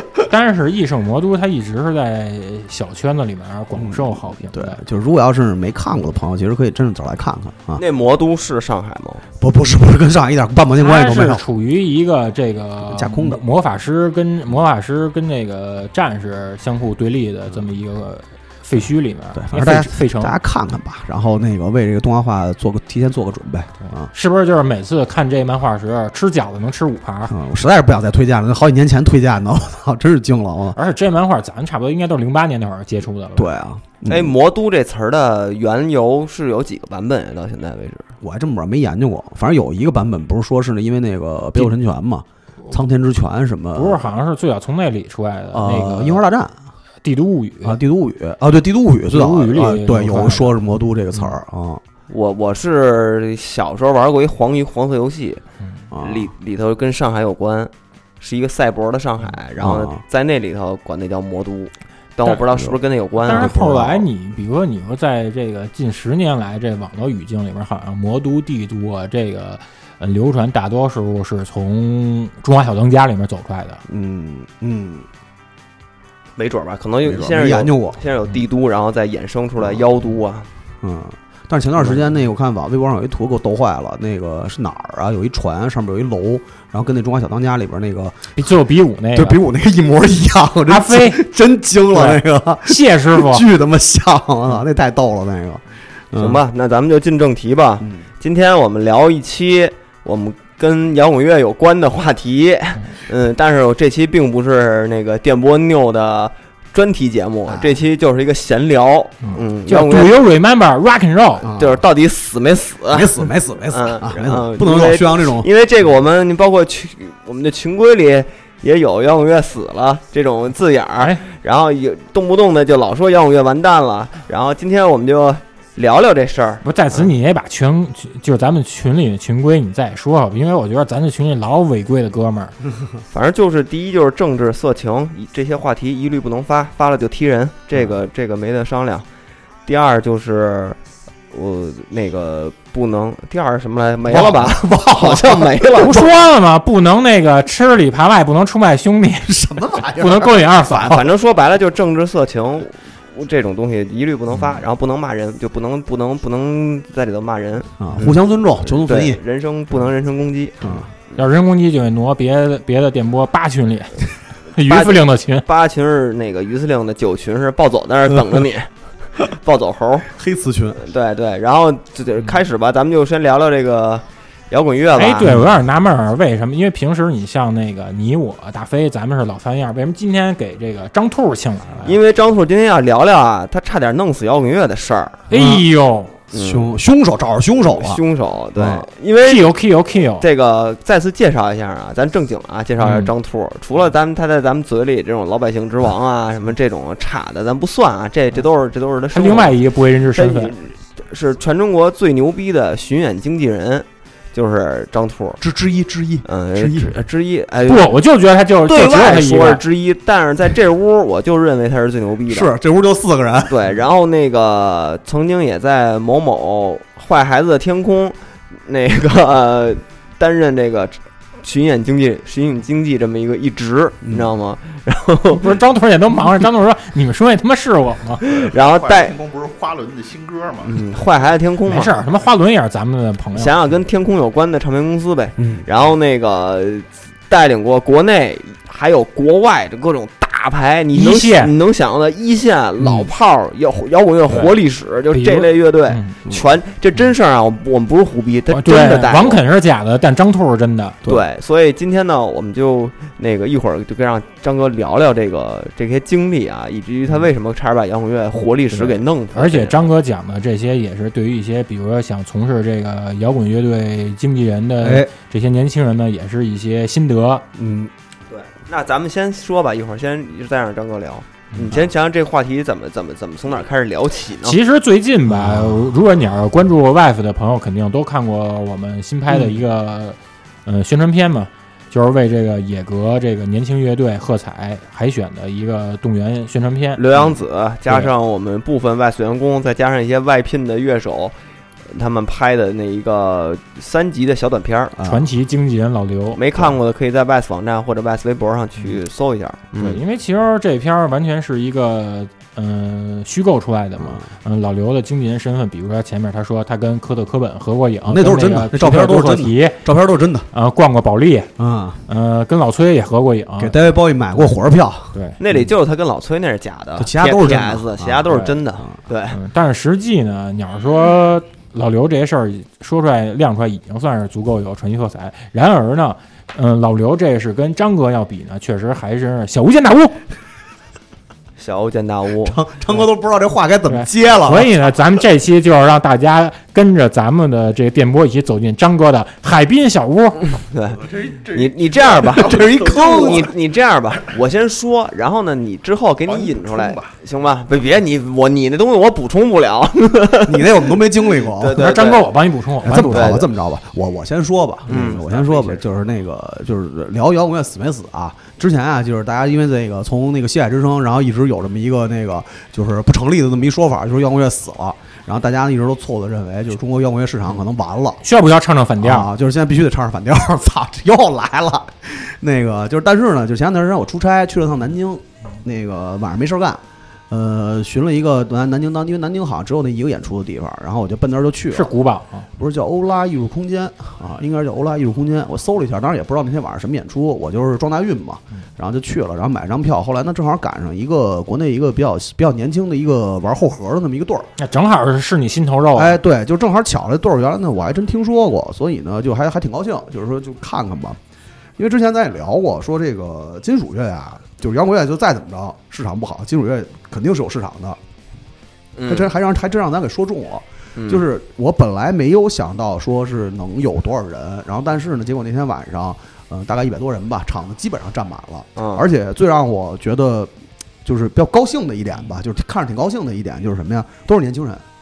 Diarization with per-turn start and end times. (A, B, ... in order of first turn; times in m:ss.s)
0:00.2-0:04.8 A
0:03.7-0:07.8 B
0:07.8-0:09.2 C
0:09.4-0:11.4 B
0:10.8-0:20.3 A
0:12.8-0:13.4 B
0:19.3-0:24.1 B
0:23.8-0:27.3 A
0:27.3-0:30.8 B
0:30.8-0:33.5 A
0:33.3-0:34.3 B
0:34.1-0:38.1 C
0:38.2-0:44.0 B
0:43.7-0:46.2 A
0:45.5-0:46.6 B
0:47.0-0:47.8 A
0:47.6-0:51.8 B
0:49.1-0:50.5 A
0:52.1-0:55.4 C
0:55.9-0:56.3 B
0:56.0-1:03.9 C
0:59.6-1:00.0 B
1:03.2-1:13.8 A
1:03.2-1:04.0 B
1:13.9-1:15.1 B
1:16.4-1:20.5 C
1:17.0-1:18.0 B
1:20.8-1:28.4 B
1:28.3-1:29.4 A
1:29.1-1:36.4 B
1:30.7-1:31.2 A
1:31.9-1:33.4 A
1:36.2-1:50.2 C
1:37.8-1:38.0 B
1:47.5-1:47.8 B
1:49.3-1:51.5 A
1:51.4-1:51.8 B
1:51.6-2:07.1 C
1:52.9-1:55.5 B
2:06.6-2:12.6 A
2:13.1-2:19.0 C
2:19.6-2:20.8 C
2:21.3-2:26.0 C
2:24.0-2:26.0 B
2:25.8-2:31.0 A
2:29.2-2:31.0 B
2:30.8-2:41.1 C
2:37.8-2:39.2 B
2:40.6-2:40.9 B
2:41.2-2:44.0 A
2:44.5-2:45.4 A
2:44.6-2:50.1 C
2:50.1-2:50.8 B
2:50.8-2:55.4 C
2:55.0-3:02.0 A
3:01.8-3:05.3 C
3:05.3-3:06.2 A
3:05.3-3:05.6 B
3:06.3-3:06.7 C
3:06.3-3:08.0 B
3:07.7-3:09.5 C
3:08.5-3:08.9 B
3:09.2-3:10.2 A
3:10.2-3:19.6 C
3:12.8-3:13.1 A
3:19.1-3:20.5 A
3:20.1-3:25.4 C
3:25.4-3:27.0 B
3:26.2-3:28.0 C
3:27.7-3:29.6 A
3:28.6-3:32.5 C
3:32.3-3:33.7 B
3:33.5-3:45.5 C
3:44.0-3:44.3 B
3:45.4-3:48.2 A
3:48.2-3:49.1 C
3:48.2-3:50.8 D
3:50.6-3:51.9 C
3:51.7-3:53.5 A
3:53.3-4:09.4 C
3:55.4-3:55.6 B
4:00.9-4:01.5 A
4:02.8-4:03.1 B
4:05.1-4:06.2 A
4:08.5-4:11.0 A
4:11.1-4:19.8 C
4:19.3-4:27.4 A
4:24.8-4:25.1 B
4:27.5-4:27.9 B
4:28.3-4:34.6 C
4:31.6-4:31.9 B
4:34.4-4:47.0 A
4:35.3-4:35.8 B
4:47.0-4:51.4 C
4:51.9-4:55.0 C
4:55.0-4:55.3 B
4:55.0-4:56.4 A
4:56.3-5:00.0 C
4:59.8-5:09.8 A
5:04.0-5:04.3 B
5:08.0-5:10.5 B
5:10.5-5:11.5 A
5:11.6-5:12.0 B
5:12.1-5:13.8 A
5:13.6-5:15.7 B
5:15.4-5:19.4 C
5:17.0-5:18.9 B
5:18.3-5:18.6 A
5:19.3-5:30.2 A
5:31.6-5:32.6 C
5:32.4-5:34.7 B
5:33.9-5:40.4 A
5:40.5-5:41.0 C
5:40.9-5:43.6 D
5:41.5-5:52.3 C
5:42.3-5:43.5 B
5:46.2-5:47.2 D
5:50.4-5:51.8 B
5:51.8-5:53.4 A
5:52.8-6:08.2 B
5:52.9-5:53.4 C
5:54.9-5:55.2 C
5:55.0-5:55.8 D
6:08.2-6:09.3 A
6:09.0-6:21.9 B
6:21.7-6:22.5 A
6:22.6-6:34.5 B
6:34.6-6:36.2 A
6:35.9-6:41.2 B
6:41.8-6:48.0 B
6:49.0-6:49.3 C
6:49.1-7:00.5 B
6:51.0-6:51.2 C
6:58.8-6:59.0 C
7:01.0-7:04.8 B